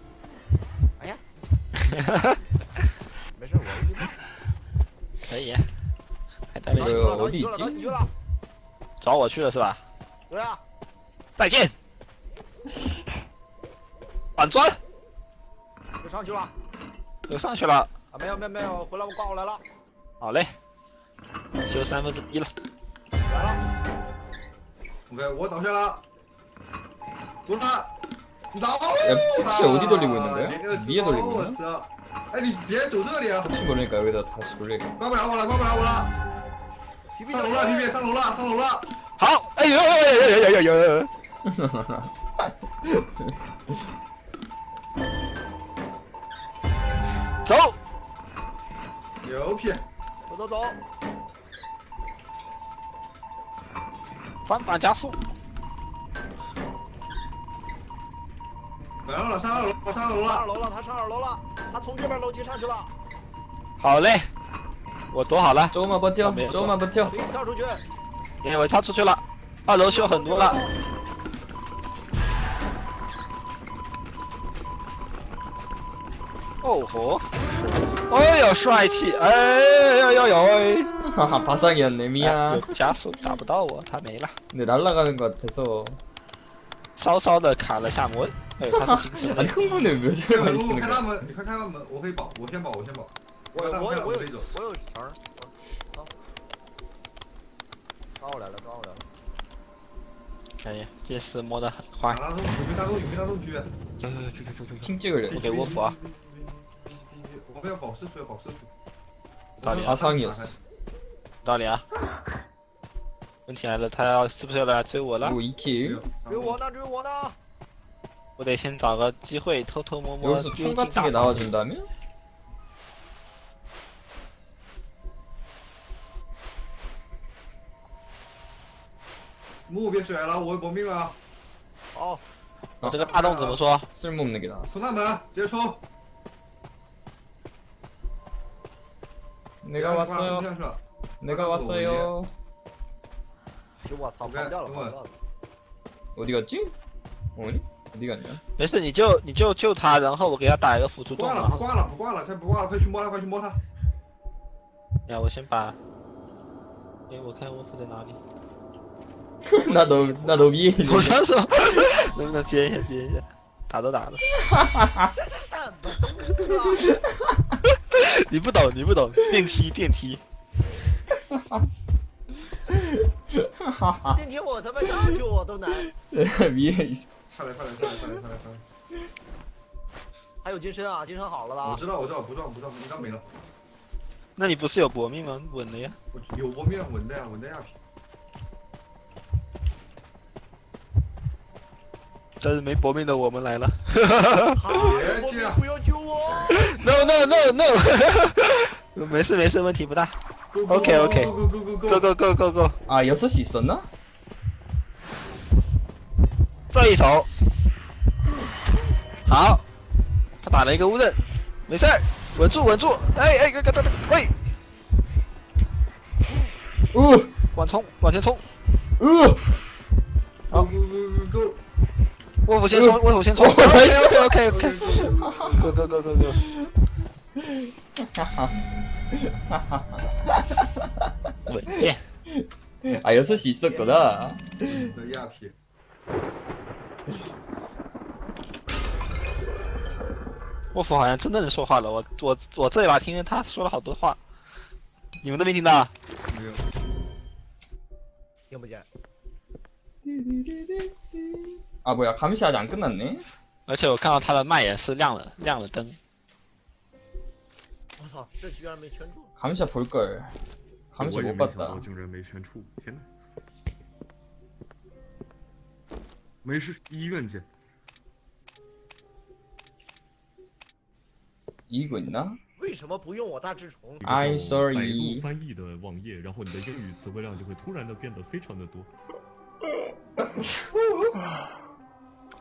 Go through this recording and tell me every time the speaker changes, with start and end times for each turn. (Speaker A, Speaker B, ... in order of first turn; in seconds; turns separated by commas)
Speaker A: 1.8-2.4, Speaker B: 3.3-4.2, Speaker A: 5.2-5.7, Speaker A: 6.5-7.2, Speaker C: 6.7-7.9, Speaker B: 6.7-8.1, Speaker A: 9.0-9.8, Speaker B: 10.3-10.6, Speaker A: 11.4-11.7, Speaker A: 14.4-14.8, Speaker B: 16.0-16.5, Speaker A: 17.3-17.9, Speaker B: 18.1-19.6, Speaker A: 20.2-20.5, Speaker A: 21.6-22.5, Speaker B: 23.2-23.7, Speaker D: 25.1-26.0, Speaker D: 27.4-27.9, Speaker D: 28.5-33.5, Speaker C: 29.0-31.6, Speaker C: 33.4-34.9, Speaker D: 35.0-36.1, Speaker B: 37.1-38.0, Speaker D: 37.3-38.9, Speaker A: 39.2-41.1, Speaker C: 41.4-43.3, Speaker A: 47.4-47.8, Speaker D: 49.2-49.8, Speaker B: 50.3-50.8, Speaker A: 54.5-55.2, Speaker D: 59.0-60.5, Speaker B: 60.2-62.9, Speaker A: 63.8-64.3, Speaker A: 65.1-66.8, Speaker C: 65.7-67.3, Speaker B: 67.0-67.8, Speaker A: 68.4-70.6, Speaker B: 69.8-70.7, Speaker A: 76.6-80.9, Speaker C: 81.0-82.9, Speaker A: 82.2-84.4, Speaker C: 84.5-86.0, Speaker A: 87.0-89.6, Speaker C: 88.7-91.2, Speaker D: 90.3-94.5, Speaker B: 93.5-96.1, Speaker B: 98.2-99.1, Speaker A: 100.6-102.2, Speaker D: 102.1-103.7, Speaker A: 104.0-105.9, Speaker C: 104.8-105.5, Speaker D: 105.3-108.7, Speaker A: 109.6-110.0, Speaker D: 109.6-110.6, Speaker C: 109.7-110.5, Speaker A: 111.4-111.8, Speaker A: 113.5-115.4, Speaker C: 115.2-116.0, Speaker D: 115.8-116.6, Speaker B: 116.2-117.3, Speaker A: 118.4-121.5, Speaker C: 120.2-121.9, Speaker D: 129.7-131.2, Speaker B: 131.9-132.2, Speaker A: 132.8-133.9, Speaker D: 132.8-133.6, Speaker C: 133.9-134.8, Speaker D: 134.7-135.8, Speaker C: 139.6-140.5, Speaker D: 139.8-142.1, Speaker C: 141.2-142.3, Speaker B: 143.8-145.2, Speaker D: 144.2-144.9, Speaker C: 146.2-146.7, Speaker C: 147.3-148.4, Speaker A: 148.6-151.7, Speaker D: 151.2-153.6, Speaker A: 155.1-155.8, Speaker A: 157.1-158.2, Speaker C: 159.4-161.2, Speaker B: 159.6-160.8, Speaker A: 160.8-164.3, Speaker C: 164.4-165.1, Speaker B: 165.1-166.9, Speaker C: 167.1-167.4, Speaker A: 167.9-170.2, Speaker C: 171.3-171.7, Speaker C: 172.7-174.2, Speaker B: 174.1-175.9, Speaker C: 176.0-177.1, Speaker D: 177.3-178.6, Speaker B: 180.4-181.8, Speaker D: 181.6-183.3, Speaker A: 184.4-186.0, Speaker D: 186.1-187.8, Speaker A: 192.4-194.6, Speaker B: 194.5-197.2, Speaker D: 194.7-195.6, Speaker A: 196.5-201.3, Speaker D: 200.5-202.1, Speaker A: 201.8-202.8, Speaker C: 202.9-203.9, Speaker A: 206.7-207.3, Speaker A: 209.2-209.6, Speaker A: 210.4-214.4, Speaker C: 216.9-217.3, Speaker A: 217.5-218.4, Speaker C: 219.0-219.4, Speaker D: 220.5-221.6, Speaker A: 222.4-225.0, Speaker C: 222.7-225.7, Speaker D: 224.4-226.0, Speaker A: 225.6-226.4, Speaker C: 226.4-226.7, Speaker C: 227.4-228.5, Speaker C: 229.1-231.1, Speaker A: 231.5-232.0, Speaker C: 231.7-234.9, Speaker B: 233.2-234.0, Speaker D: 234.6-235.6, Speaker A: 240.7-244.2, Speaker A: 245.2-245.9, Speaker D: 246.3-246.6, Speaker B: 248.5-248.9, Speaker C: 250.0-253.2, Speaker A: 253.7-256.0, Speaker B: 258.0-259.3, Speaker C: 259.4-260.4, Speaker C: 260.9-261.9, Speaker E: 261.0-263.1, Speaker E: 266.4-267.4, Speaker C: 271.7-272.4, Speaker B: 272.6-274.1, Speaker E: 274.0-278.9, Speaker C: 274.0-275.3, Speaker D: 280.2-281.2